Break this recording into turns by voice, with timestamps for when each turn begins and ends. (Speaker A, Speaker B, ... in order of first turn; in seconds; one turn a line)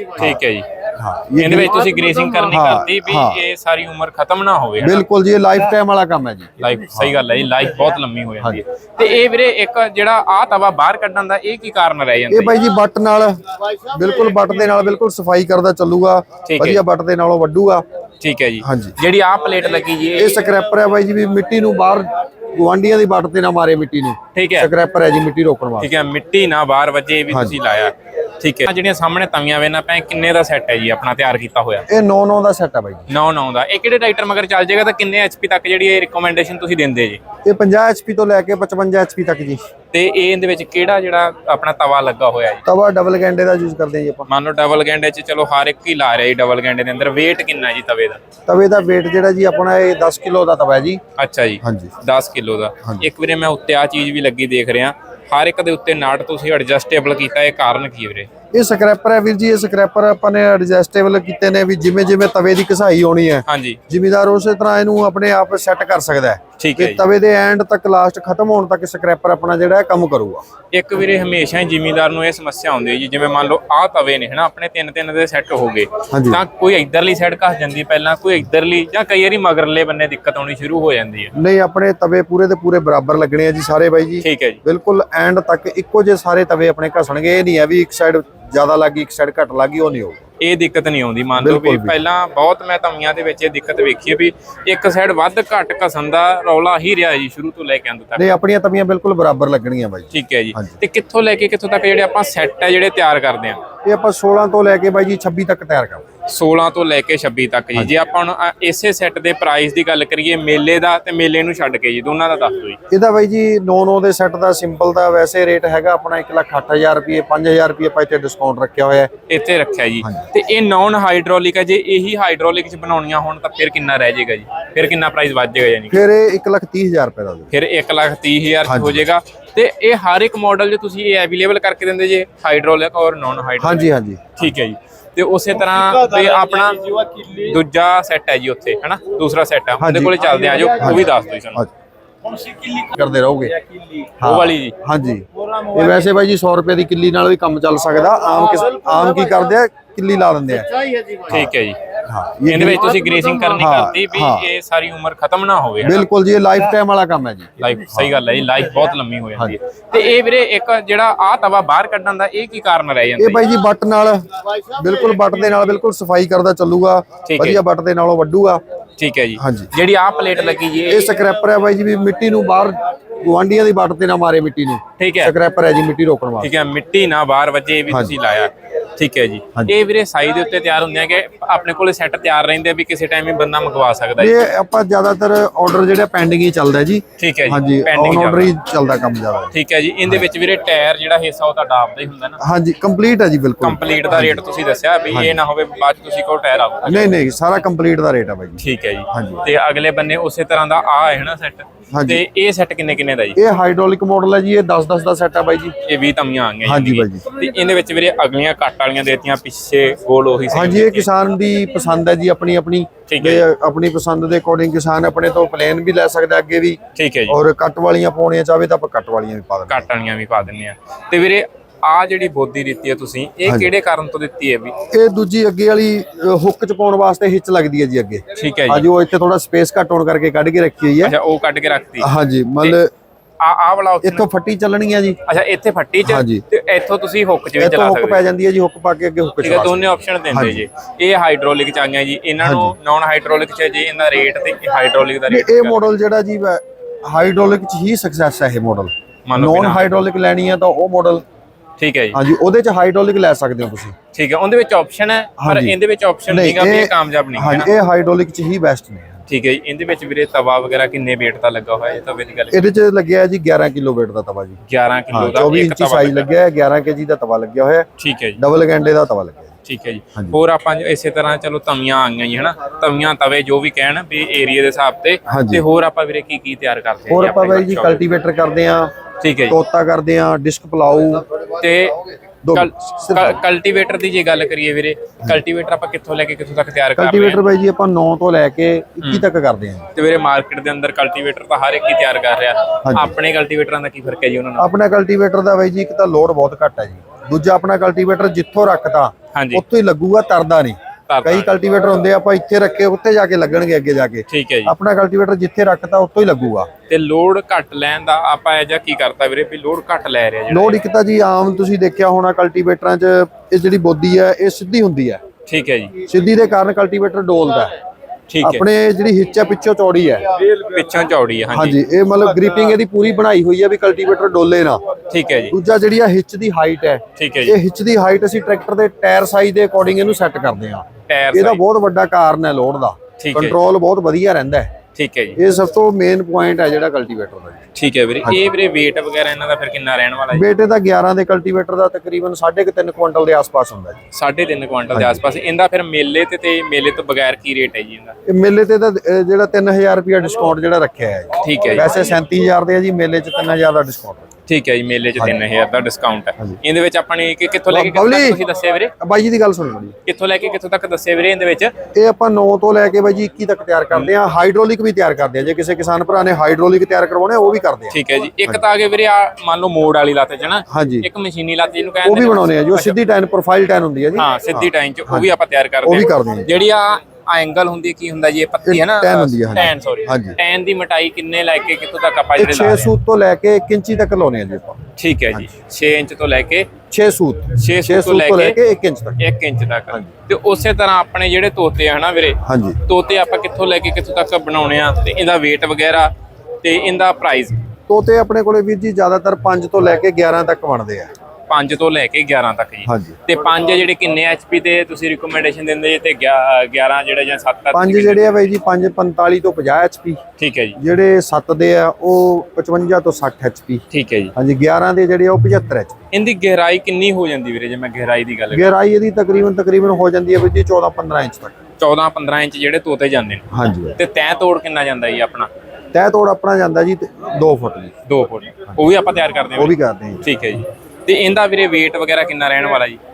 Speaker A: 0.2-0.7
Speaker B: 0.9-3.4
Speaker A: 1.4-5.0
Speaker B: 4.8-7.1
Speaker A: 6.6-12.6
Speaker B: 12.3-17.8
Speaker A: 16.4-16.8
Speaker A: 18.2-20.4
Speaker B: 18.6-19.0
Speaker B: 20.1-25.9
Speaker A: 24.3-24.7
Speaker A: 25.8-31.9
Speaker B: 27.3-27.6
Speaker B: 31.9-33.0
Speaker A: 33.1-37.2
Speaker B: 37.4-39.6
Speaker A: 39.9-42.6
Speaker B: 42.6-44.3
Speaker A: 44.3-48.2
Speaker B: 48.5-51.0
Speaker A: 51.2-58.3
Speaker B: 51.6-51.9
Speaker B: 58.5-70.4
Speaker A: 63.5-63.8
Speaker A: 66.6-67.0
Speaker A: 70.7-81.3
Speaker B: 76.1-76.4
Speaker B: 81.3-90.3
Speaker A: 84.2-84.6
Speaker A: 90.4-98.3
Speaker B: 91.4-91.9
Speaker B: 98.2-100.8
Speaker A: 100.1-103.6
Speaker B: 103.8-106.0
Speaker A: 106.3-112.8
Speaker B: 112.9-119.1
Speaker A: 119.3-126.0
Speaker B: 125.9-127.5
Speaker A: 127.5-141.7
Speaker B: 128.7-129.0
Speaker B: 133.6-134.3
Speaker B: 139.8-141.7
Speaker B: 142.7-143.5
Speaker B: 144.2-150.7
Speaker A: 144.2-144.8
Speaker A: 151.3-151.8
Speaker B: 152.0-153.0
Speaker A: 152.5-156.1
Speaker B: 153.5-154.5
Speaker B: 155.8-158.1
Speaker A: 157.6-163.4
Speaker B: 163.2-168.6
Speaker A: 167.2-167.6
Speaker A: 169.0-171.1
Speaker B: 169.4-169.7
Speaker B: 170.8-176.5
Speaker A: 175.0-175.3
Speaker A: 176.4-184.4
Speaker B: 177.9-178.1
Speaker B: 184.2-189.5
Speaker A: 187.2-188.5
Speaker A: 189.5-192.4
Speaker B: 192.4-194.4
Speaker A: 193.6-197.2
Speaker B: 195.1-195.4
Speaker B: 196.8-199.4
Speaker A: 198.6-203.4
Speaker B: 201.9-202.2
Speaker B: 203.3-205.7
Speaker A: 205.8-211.1
Speaker B: 206.6-207.2
Speaker B: 210.5-219.9
Speaker A: 213.1-213.4
Speaker A: 216.9-217.4
Speaker A: 219.7-224.7
Speaker B: 224.9-231.1
Speaker A: 228.4-228.9
Speaker A: 231.0-232.1
Speaker B: 232.0-232.9
Speaker A: 233.4-234.3
Speaker B: 234.0-235.2
Speaker A: 235.3-238.2
Speaker B: 236.0-236.4
Speaker B: 237.6-240.6
Speaker A: 239.4-245.8
Speaker B: 242.4-242.7
Speaker B: 245.3-251.2
Speaker A: 249.3-250.0
Speaker A: 251.8-252.2
Speaker B: 252.1-253.9
Speaker A: 254.1-257.7
Speaker B: 255.4-255.8
Speaker B: 256.3-259.2
Speaker A: 259.3-262.6
Speaker B: 262.5-264.6
Speaker A: 264.7-266.3
Speaker B: 265.1-267.9
Speaker A: 268.0-268.4
Speaker B: 268.4-269.5
Speaker A: 269.6-278.0
Speaker B: 275.3-275.6
Speaker B: 277.1-278.9
Speaker A: 279.2-279.6
Speaker B: 279.5-281.3
Speaker A: 281.6-287.4
Speaker B: 282.4-283.4
Speaker B: 287.0-289.9
Speaker A: 289.9-294.7
Speaker B: 292.8-293.1
Speaker B: 294.6-306.7
Speaker A: 299.3-299.6
Speaker A: 301.1-301.5
Speaker A: 304.3-304.7
Speaker A: 306.9-310.8
Speaker B: 310.5-315.2
Speaker A: 315.5-315.9
Speaker B: 316.1-317.7
Speaker A: 318.3-318.6
Speaker B: 318.4-320.2
Speaker A: 320.4-321.8
Speaker B: 321.5-324.8
Speaker A: 325.1-325.6
Speaker B: 325.5-334.7
Speaker A: 327.2-327.6
Speaker A: 331.1-331.6
Speaker A: 333.2-333.6
Speaker A: 334.9-335.4
Speaker B: 335.4-337.6
Speaker A: 337.7-340.5
Speaker B: 338.2-338.5
Speaker B: 340.3-344.0
Speaker A: 344.1-348.1
Speaker B: 344.9-345.2
Speaker B: 348.3-354.3
Speaker A: 351.4-351.9
Speaker A: 354.5-358.9
Speaker B: 357.7-358.4
Speaker B: 359.0-359.9
Speaker A: 360.1-361.7
Speaker B: 361.9-368.6
Speaker A: 367.9-372.9
Speaker B: 370.7-371.1
Speaker B: 372.0-375.3
Speaker A: 374.1-382.9
Speaker B: 375.8-376.5
Speaker B: 378.6-380.4
Speaker B: 382.4-384.8
Speaker A: 385.0-386.7
Speaker B: 386.9-389.2
Speaker A: 387.6-388.6
Speaker A: 389.2-396.1
Speaker B: 392.4-392.8
Speaker A: 396.6-397.6
Speaker B: 397.9-401.1
Speaker A: 401.5-408.5
Speaker B: 402.9-403.2
Speaker B: 407.7-410.2
Speaker A: 410.4-410.8
Speaker B: 410.8-413.8
Speaker A: 413.9-414.3
Speaker B: 414.4-416.0
Speaker A: 416.1-418.7
Speaker B: 418.5-421.6
Speaker A: 421.8-423.4
Speaker B: 423.5-424.0
Speaker A: 424.0-425.5
Speaker B: 425.9-427.9
Speaker A: 428.1-433.0
Speaker B: 429.5-430.2